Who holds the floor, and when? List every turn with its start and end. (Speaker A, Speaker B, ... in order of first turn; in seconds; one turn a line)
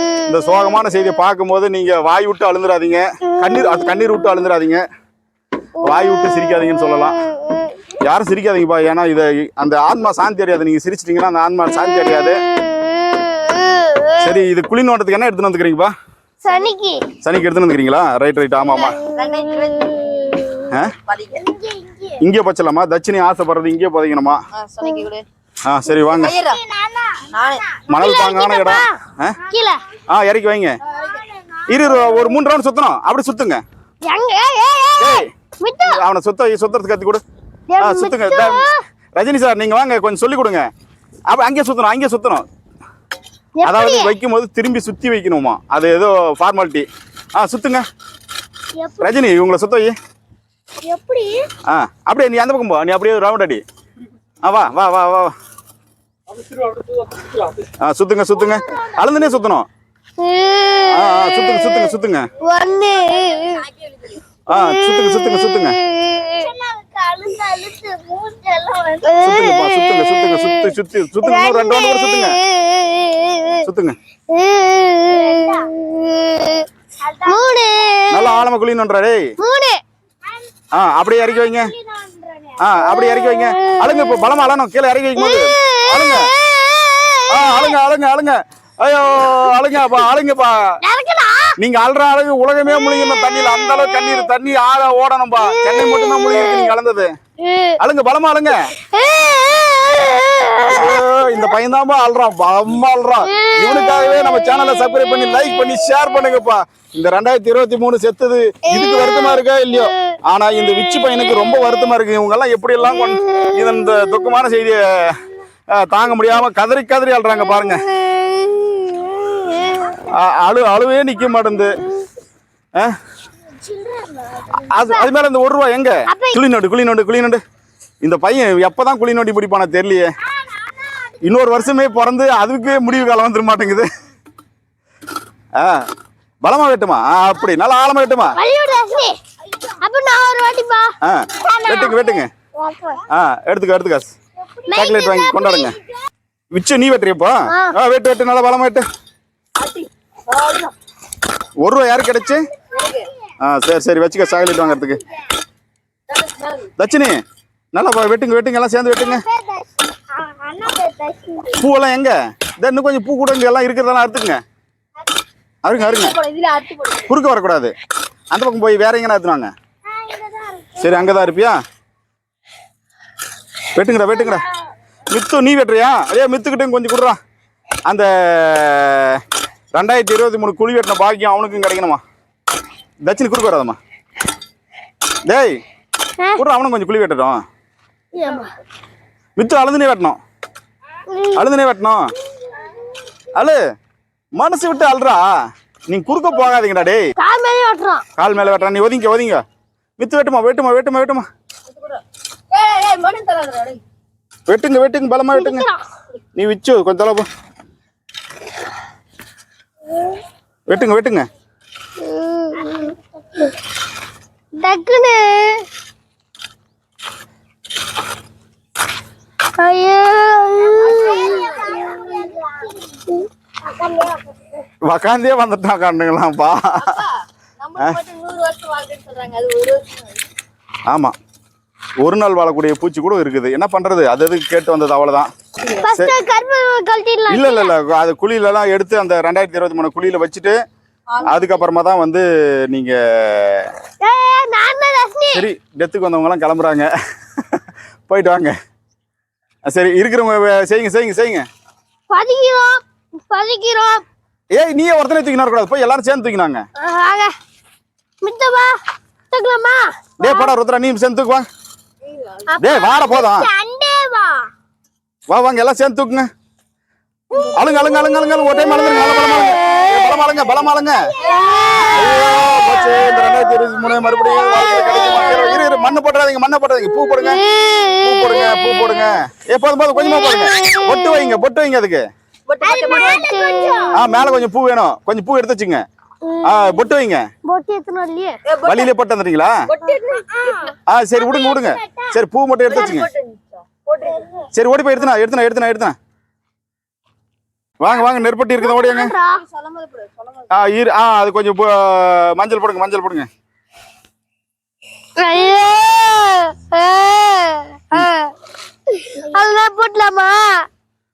Speaker A: 0.3-4.8
Speaker A: 5.8-7.2
Speaker A: 8.0-12.4
Speaker A: 14.2-15.9
Speaker B: 16.4-17.0
Speaker A: 17.2-19.0
Speaker C: 18.7-20.4
Speaker C: 21.0-21.5
Speaker B: 21.4-22.1
Speaker A: 22.2-24.4
Speaker C: 24.5-25.2
Speaker A: 25.7-26.4
Speaker C: 26.1-26.6
Speaker C: 27.3-27.6
Speaker A: 27.9-29.4
Speaker B: 27.9-28.9
Speaker B: 29.5-29.8
Speaker A: 30.1-30.8
Speaker A: 31.7-33.6
Speaker B: 34.1-36.0
Speaker A: 35.0-35.3
Speaker A: 35.8-37.2
Speaker B: 37.7-38.8
Speaker A: 37.8-38.6
Speaker A: 39.2-40.7
Speaker A: 41.3-42.5
Speaker B: 43.6-44.1
Speaker A: 43.6-47.9
Speaker B: 48.8-49.1
Speaker A: 49.0-50.0
Speaker B: 50.9-51.5
Speaker A: 51.7-53.6
Speaker A: 54.4-55.3
Speaker A: 57.8-59.7
Speaker B: 60.2-61.3
Speaker A: 60.9-62.3
Speaker B: 62.4-63.6
Speaker C: 63.6-64.2
Speaker A: 64.5-65.8
Speaker B: 66.1-66.5
Speaker B: 69.0-69.9
Speaker A: 69.2-72.4
Speaker B: 71.2-73.6
Speaker A: 73.6-74.0
Speaker B: 74.3-76.7
Speaker B: 77.2-78.3
Speaker A: 78.1-79.3
Speaker B: 79.4-79.8
Speaker A: 80.7-81.7
Speaker B: 81.8-82.3
Speaker A: 82.6-86.3
Speaker B: 85.2-87.7
Speaker A: 87.3-90.8
Speaker B: 90.8-91.6
Speaker A: 91.6-97.2
Speaker B: 97.4-97.8
Speaker A: 97.8-98.7
Speaker B: 98.8-101.0
Speaker A: 100.7-115.2
Speaker B: 108.8-109.2
Speaker A: 115.7-117.8
Speaker B: 118.6-119.9
Speaker A: 120.1-121.8
Speaker B: 123.7-125.0
Speaker A: 124.7-127.4
Speaker B: 126.1-126.4
Speaker A: 128.0-130.1
Speaker A: 131.2-133.9
Speaker A: 135.6-135.9
Speaker A: 136.4-138.4
Speaker B: 138.4-139.2
Speaker B: 139.8-140.9
Speaker A: 141.0-142.3
Speaker B: 141.4-143.0
Speaker A: 143.1-144.1
Speaker B: 144.6-145.7
Speaker A: 144.7-145.8
Speaker A: 146.5-148.9
Speaker B: 147.5-147.7
Speaker C: 149.6-150.7
Speaker A: 151.6-152.4
Speaker C: 152.7-153.1
Speaker A: 153.4-155.0
Speaker C: 156.1-156.7
Speaker A: 156.8-157.2
Speaker A: 157.8-159.2
Speaker B: 159.0-159.7
Speaker B: 160.2-161.4
Speaker A: 161.6-164.4
Speaker A: 165.6-166.2
Speaker C: 165.8-167.1
Speaker A: 167.1-167.7
Speaker A: 168.3-169.5
Speaker B: 170.1-170.7
Speaker A: 170.8-171.6
Speaker A: 173.8-174.4
Speaker A: 175.1-177.2
Speaker A: 177.9-179.2
Speaker A: 179.8-182.0
Speaker A: 183.0-183.8
Speaker A: 185.3-185.6
Speaker A: 186.4-187.4
Speaker B: 188.1-188.5
Speaker A: 189.4-190.2
Speaker B: 191.1-191.4
Speaker A: 191.3-192.1
Speaker A: 193.3-193.6
Speaker A: 194.4-195.3
Speaker A: 195.9-197.1
Speaker B: 197.2-198.0
Speaker A: 198.2-199.4
Speaker A: 200.0-201.3
Speaker C: 201.7-202.0
Speaker C: 202.5-203.8
Speaker A: 204.5-205.7
Speaker B: 205.3-205.8
Speaker A: 206.4-207.3
Speaker A: 210.7-211.3
Speaker B: 212.0-213.5
Speaker B: 214.6-215.7
Speaker B: 219.6-224.3
Speaker C: 220.8-221.8
Speaker A: 224.8-227.0
Speaker C: 226.8-230.2
Speaker A: 230.9-231.2
Speaker A: 232.0-235.3
Speaker B: 235.8-237.7
Speaker A: 237.3-240.6
Speaker C: 241.1-241.6
Speaker A: 241.2-243.7
Speaker B: 244.0-245.5
Speaker A: 245.3-248.6
Speaker A: 249.7-251.5
Speaker B: 252.1-254.0
Speaker A: 254.5-256.6
Speaker B: 256.8-257.3
Speaker B: 258.2-258.8
Speaker B: 259.3-260.5
Speaker A: 260.2-261.5
Speaker C: 262.0-262.4
Speaker B: 262.5-264.5
Speaker A: 262.6-263.5
Speaker A: 265.3-266.3
Speaker A: 267.5-271.1
Speaker B: 271.2-272.6
Speaker C: 271.2-271.9
Speaker A: 271.9-277.4
Speaker B: 274.5-275.3
Speaker A: 278.0-282.1
Speaker C: 282.5-283.5
Speaker B: 282.6-284.0
Speaker A: 283.9-285.8
Speaker B: 286.2-286.8
Speaker A: 286.4-287.3
Speaker B: 287.4-288.4
Speaker C: 288.5-288.9
Speaker A: 288.6-289.6
Speaker C: 289.7-290.7
Speaker B: 290.4-290.7
Speaker A: 290.9-293.1
Speaker B: 291.4-292.1
Speaker C: 292.7-294.3
Speaker A: 294.5-296.0
Speaker A: 297.8-299.1
Speaker B: 298.6-299.4
Speaker C: 299.4-300.5
Speaker A: 300.5-303.3
Speaker B: 305.2-308.3
Speaker B: 308.9-310.7